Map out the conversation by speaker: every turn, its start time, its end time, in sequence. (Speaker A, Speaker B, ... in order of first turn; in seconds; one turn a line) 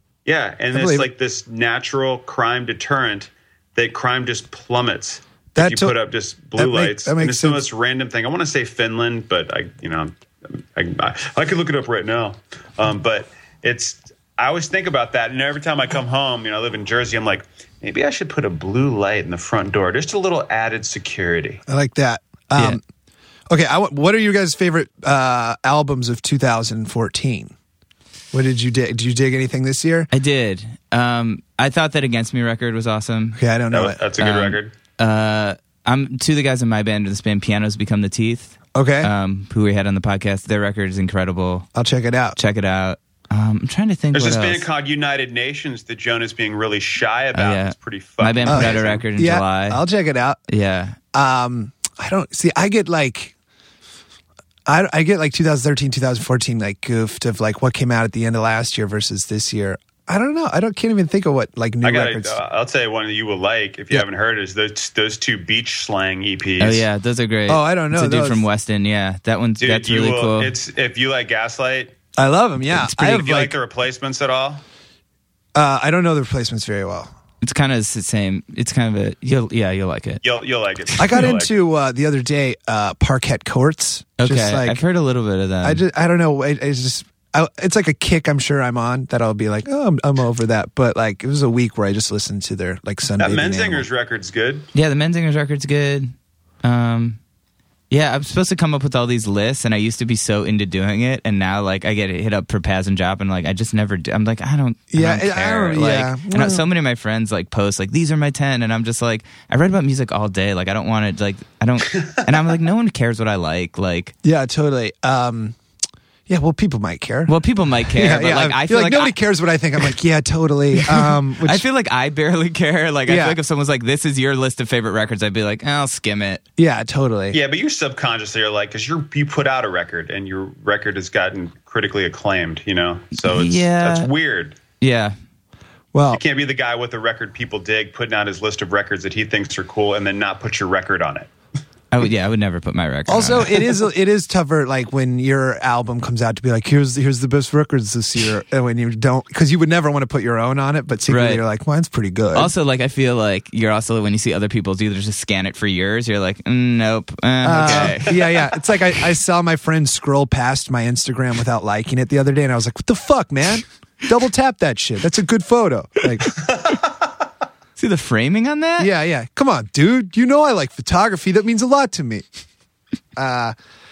Speaker A: 0.2-21.6
Speaker B: 0.7-1.1
Speaker B: 5.6-6.0
Speaker B: 6.6-7.6
Speaker B: 21.7-22.8
Speaker B: 23.5-27.5
Speaker B: 28.3-30.1
Speaker C: 30.1-33.4
Speaker B: 33.4-34.0
Speaker A: 33.7-34.7
Speaker C: 34.2-41.7
Speaker B: 38.8-39.1
Speaker B: 41.8-42.4
Speaker C: 42.4-44.7
Speaker A: 44.1-49.0
Speaker C: 47.3-49.8
Speaker B: 48.5-50.4
Speaker C: 50.5-51.0
Speaker B: 51.1-53.3
Speaker B: 54.7-62.4
Speaker A: 61.8-66.8
Speaker C: 66.6-70.5
Speaker B: 67.5-68.5
Speaker A: 69.6-71.9
Speaker B: 72.2-73.6
Speaker A: 73.0-74.6
Speaker B: 75.5-77.1
Speaker C: 77.4-80.2
Speaker A: 80.2-81.5
Speaker C: 81.0-81.3
Speaker B: 81.0-84.8
Speaker C: 84.2-85.8
Speaker B: 85.6-93.8
Speaker A: 93.2-94.7
Speaker C: 94.7-97.2
Speaker C: 97.9-114.1
Speaker B: 104.9-106.7
Speaker B: 114.2-115.6
Speaker B: 116.3-117.3
Speaker C: 117.3-119.2
Speaker B: 117.9-121.7
Speaker C: 120.8-126.4
Speaker B: 123.1-123.4
Speaker B: 126.6-127.4
Speaker A: 127.3-134.6
Speaker C: 133.2-134.1
Speaker C: 134.8-135.2
Speaker B: 135.9-136.2
Speaker A: 136.1-141.3
Speaker C: 141.9-143.7
Speaker B: 143.1-152.5
Speaker C: 151.1-151.4
Speaker C: 152.3-158.2
Speaker B: 157.4-166.4
Speaker A: 157.6-158.3
Speaker A: 166.6-166.9
Speaker C: 167.8-168.9
Speaker B: 168.8-172.2
Speaker B: 173.2-173.6